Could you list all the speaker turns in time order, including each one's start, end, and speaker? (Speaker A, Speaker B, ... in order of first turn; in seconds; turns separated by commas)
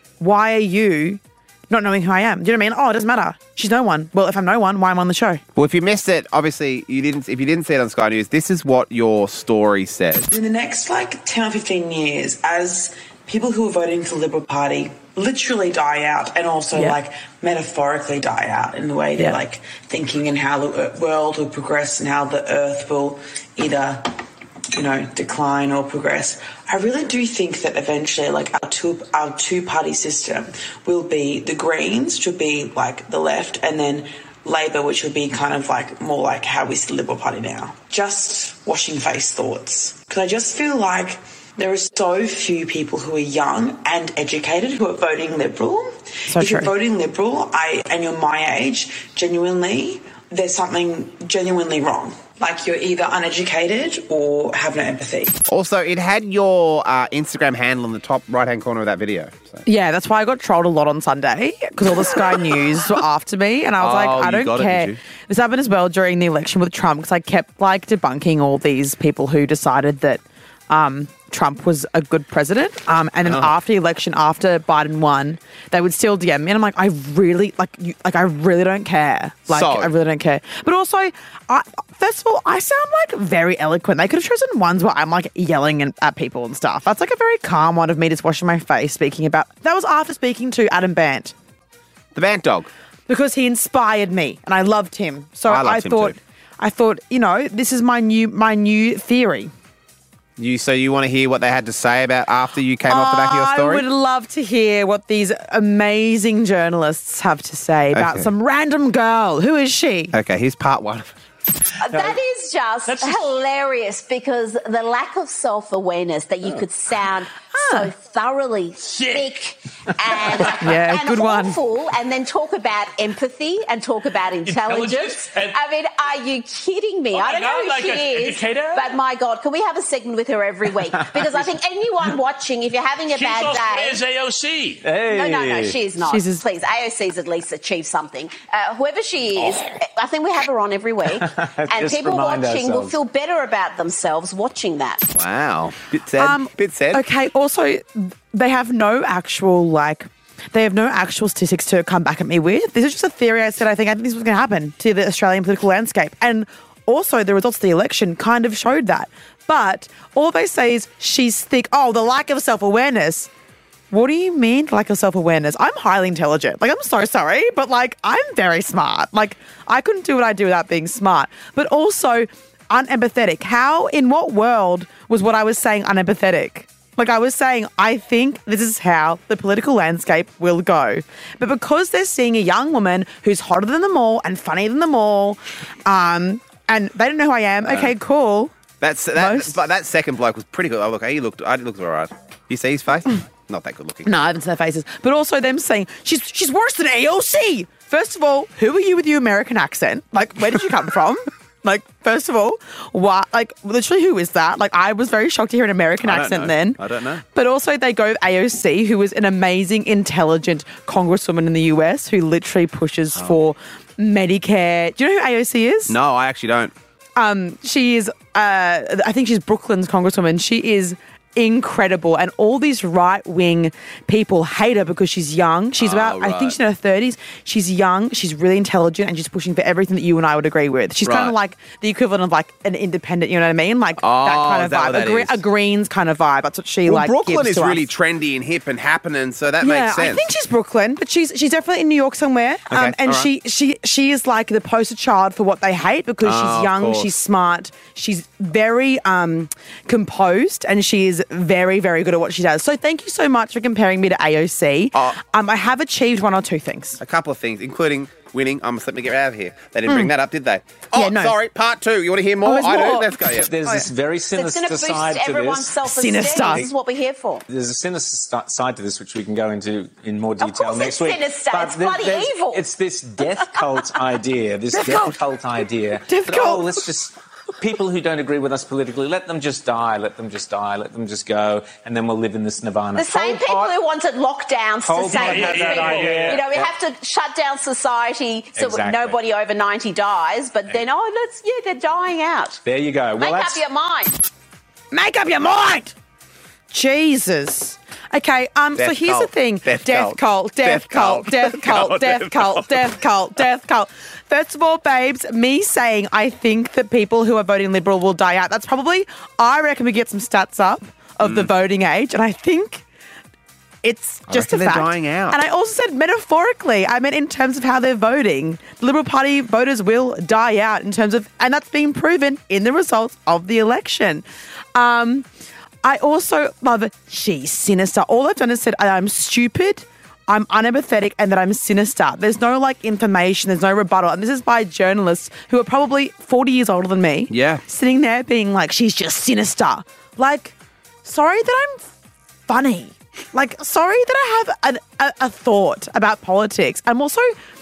Speaker A: 0.2-5.4, Speaker B: 5.6-10.3, Speaker C: 10.3-24.2, Speaker C: 24.7-55.4, Speaker A: 46.3-46.7, Speaker B: 55.5-59.6, Speaker A: 59.6-91.3, Speaker B: 61.8-62.9, Speaker B: 63.8-65.0, Speaker B: 73.2-73.5, Speaker B: 79.5-79.9, Speaker B: 92.2-92.7, Speaker A: 93.1-99.5, Speaker B: 95.5-96.2, Speaker B: 100.4-103.9, Speaker A: 102.9-110.2, Speaker B: 107.9-108.3, Speaker B: 110.1-111.1, Speaker D: 111.8-134.0, Speaker E: 112.9-113.3, Speaker A: 117.6-117.9, Speaker E: 118.8-119.4, Speaker E: 120.2-120.5, Speaker A: 120.6-121.6, Speaker E: 124.5-125.6, Speaker E: 127.1-128.9, Speaker E: 133.1-134.8, Speaker F: 134.8-135.8, Speaker D: 135.0-145.0, Speaker A: 136.0-136.4, Speaker F: 141.2-142.9, Speaker B: 145.1-147.0, Speaker A: 146.2-163.3, Speaker A: 163.9-188.5, Speaker B: 187.7-187.9, Speaker B: 188.8-194.1, Speaker A: 189.2-189.6, Speaker A: 194.1-216.0, Speaker B: 206.0-207.2, Speaker B: 215.9-216.7, Speaker A: 217.2-237.9, Speaker B: 225.8-226.6, Speaker B: 231.0-231.3, Speaker B: 234.0-235.4, Speaker B: 236.9-240.3, Speaker A: 239.6-257.0, Speaker B: 242.7-243.3, Speaker B: 246.2-247.1, Speaker B: 257.0-263.5, Speaker A: 260.9-261.4, Speaker A: 262.4-263.9, Speaker F: 263.3-265.8, Speaker D: 264.3-267.4, Speaker A: 265.8-266.6, Speaker F: 267.5-283.8, Speaker D: 270.4-272.6, Speaker A: 274.7-275.1, Speaker A: 276.1-276.8, Speaker D: 282.9-292.6, Speaker F: 284.8-286.7, Speaker E: 285.1-286.5, Speaker F: 288.6-289.2, Speaker F: 292.6-293.6, Speaker D: 293.2-294.1, Speaker A: 294.9-295.9, Speaker A: 296.7-312.9, Speaker B: 298.8-302.9, Speaker B: 311.2-311.5, Speaker A: 313.8-325.3, Speaker B: 314.3-315.4, Speaker A: 325.8-341.9, Speaker B: 337.3-337.6, Speaker A: 342.5-347.4